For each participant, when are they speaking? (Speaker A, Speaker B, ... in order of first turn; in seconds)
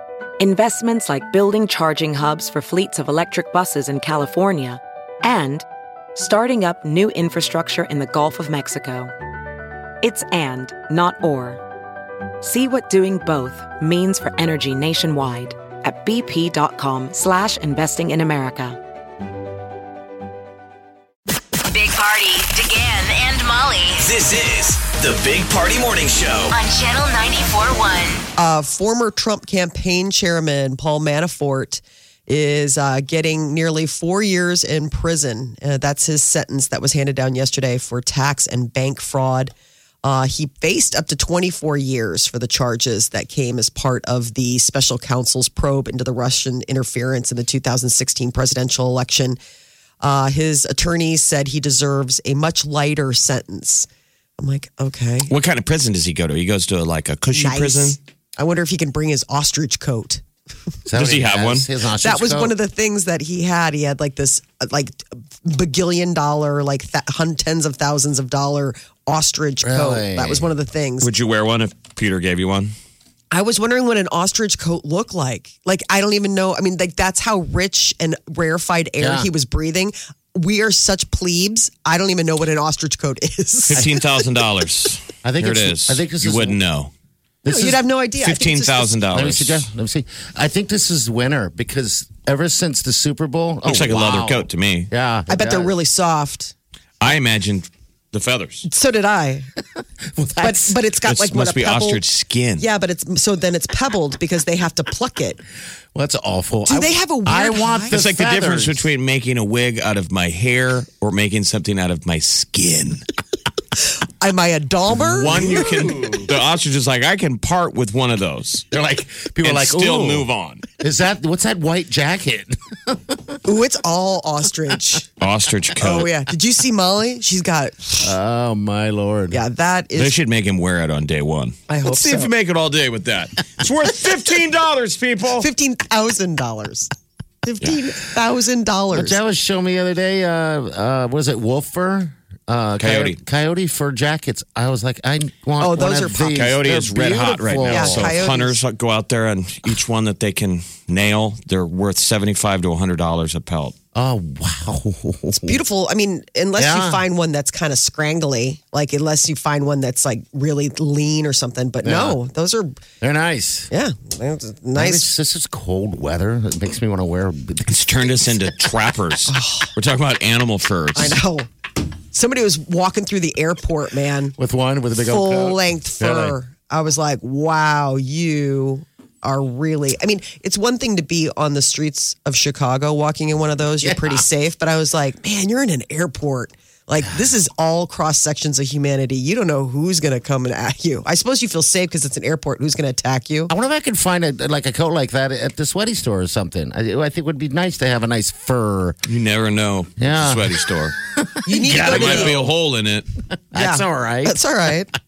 Speaker A: 0.4-5.7, 6.2-9.1, 10.0-11.6, 12.4-18.8
Speaker B: 21.6-24.1, 26.5-28.2
Speaker C: 24.0-26.6
Speaker D: 28.4-39.5, 40.0-49.4, 50.0-53.9, 54.4-55.3, 57.3-60.2, 62.0-71.1, 73.3-84.0, 87.5-89.0, 95.3-96.5, 98.7-99.5, 100.4-102.0, 102.6-105.4, 106.7-108.0, 114.2-115.9, 123.5-125.1, 125.8-128.2, 129.3-130.2, 131.7-132.3, 135.4-136.9, 137.4-139.2, 145.6-146.4, 147.7-148.6, 155.3-162.8, 163.7-165.1, 169.3-169.7, 170.9-171.5, 172.1-174.4, 175.1-193.5, 201.5-202.5, 203.6-204.9
Speaker E: 55.3-58.0, 60.9-61.7, 71.0-72.7, 83.7-86.9, 88.2-89.7, 93.6-94.9, 97.0-98.7, 101.0-102.7, 107.9-113.1, 115.0-118.7, 119.4-120.7, 125.2-126.1, 130.0-135.5, 142.8-143.2, 146.3-153.8, 167.7-171.2, 199.1-201.0, 201.5-203.1
Speaker F: 60.9-62.5, 69.6-70.5, 79.0-79.3, 85.2-86.6, 87.5-87.8, 89.1-95.8, 100.2-100.8, 106.0-108.9, 115.3-116.1, 118.7-120.3, 120.8-123.2, 128.0-129.4, 138.9-148.2, 153.9-155.6, 156.6-157.0, 161.8-162.2, 163.0-163.7, 164.8-167.7, 174.4-176.4, 183.8-184.2, 193.5-199.0, 200.0-202.5, 203.5-204.7